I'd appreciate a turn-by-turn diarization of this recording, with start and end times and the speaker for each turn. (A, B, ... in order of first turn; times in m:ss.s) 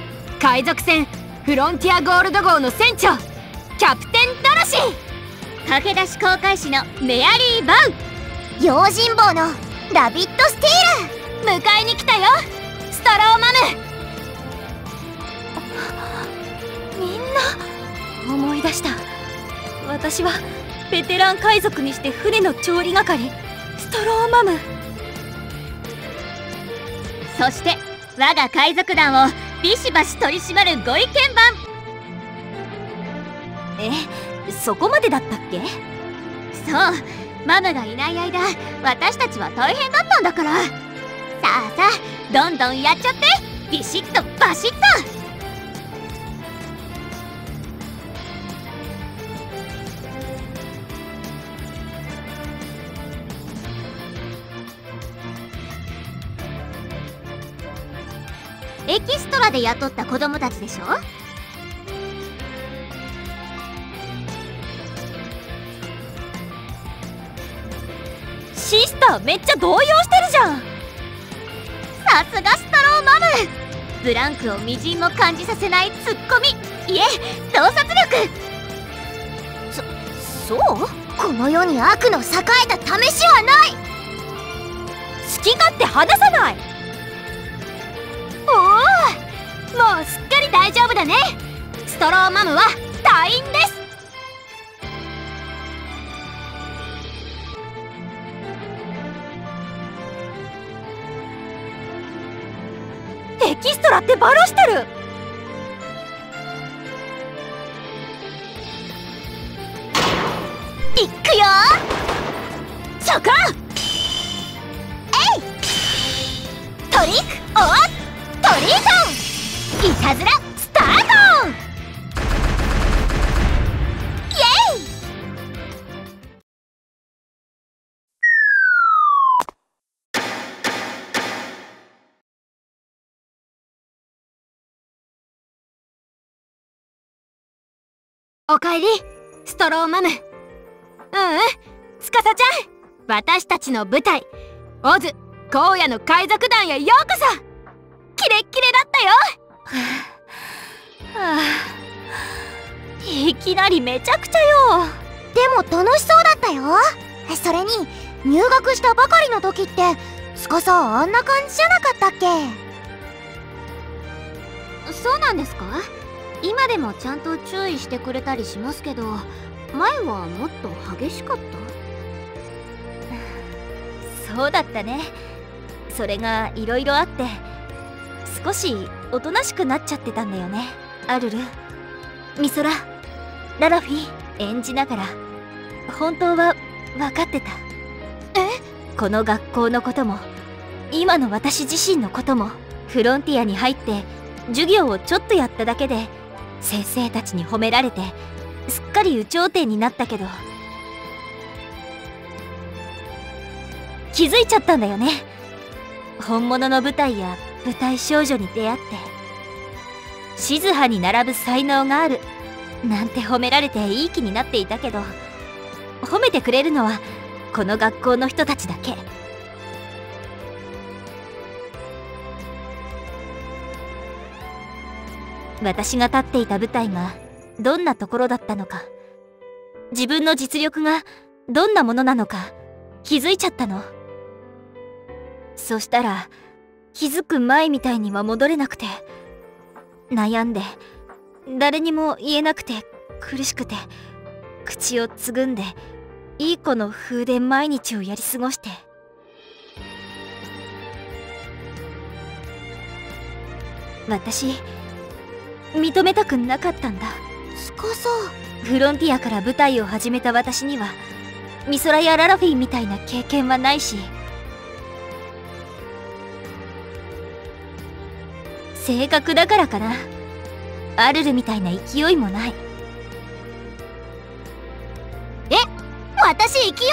0:00.4-0:03.2 A
0:03.8-0:05.0 A
0:05.6-0:07.9 B
0:08.6-0:11.1 C
0:11.4-0:12.4 A
0:12.9-0:13.8 A
0:17.0-0:17.6 D
0:18.2-0:19.1 D
0:19.8-0:24.7 D
0:27.3-0:31.6 B
0:33.8-0:35.8 D
0:36.5-0:40.7 B
0:41.4-0:45.1 B
0:58.9-1:01.0 B
1:08.5-1:10.7 D
1:12.0-1:13.5 B
1:14.0-1:18.3 B
1:19.7-1:20.9 B
1:20.2-1:20.5 D
1:21.2-1:23.8 C
1:25.2-1:26.6 D
1:28.5-1:29.2 A
1:29.7-1:33.8 A
1:43.4-1:44.9 D
1:51.0-1:51.8 C
1:53.0-1:53.5 A
1:55.1-1:55.5 C
1:56.9-1:57.9 C
1:58.4-1:59.2 C
1:59.9-2:00.2 B
2:00.6-2:01.5 C
2:04.3-2:04.9 C
2:18.5-2:20.2 A
2:21.1-2:24.3 A
2:24.8-2:27.4 A
2:28.2-2:29.2 A
2:29.7-2:30.1 D
2:31.1-2:31.8 D
2:33.0-2:35.0 D
2:35.4-2:42.6 C
2:44.8-2:45.9 B
2:46.4-2:51.7 B
2:54.1-2:55.2 D
2:55.9-2:57.4 D
2:58.2-3:01.5 D
3:02.4-3:02.8 D
3:03.6-3:05.2 D
3:05.9-3:07.6 D
3:09.0-3:10.3 D
3:10.9-3:20.4 D
3:24.1-3:25.3 D
3:26.2-3:29.1 D
3:30.4-3:32.2 D
3:32.8-3:35.2 D
3:36.0-3:39.0 D
3:45.6-3:48.9 D
3:49.9-3:52.5 D
3:53.0-3:53.9 D
3:55.6-3:56.3 D
3:56.9-3:59.0 D
4:00.1-4:00.8 D
4:01.5-4:03.9 D
4:04.6-4:05.8 D
4:06.4-4:08.8 D
4:14.1-4:14.7 D
4:15.7-4:17.2 D
4:17.6-4:18.3 C
4:18.6-4:21.0 D
4:21.7-4:24.1 D
4:28.8-4:30.1 D
4:31.0-4:32.6 D
4:36.2-4:36.6 A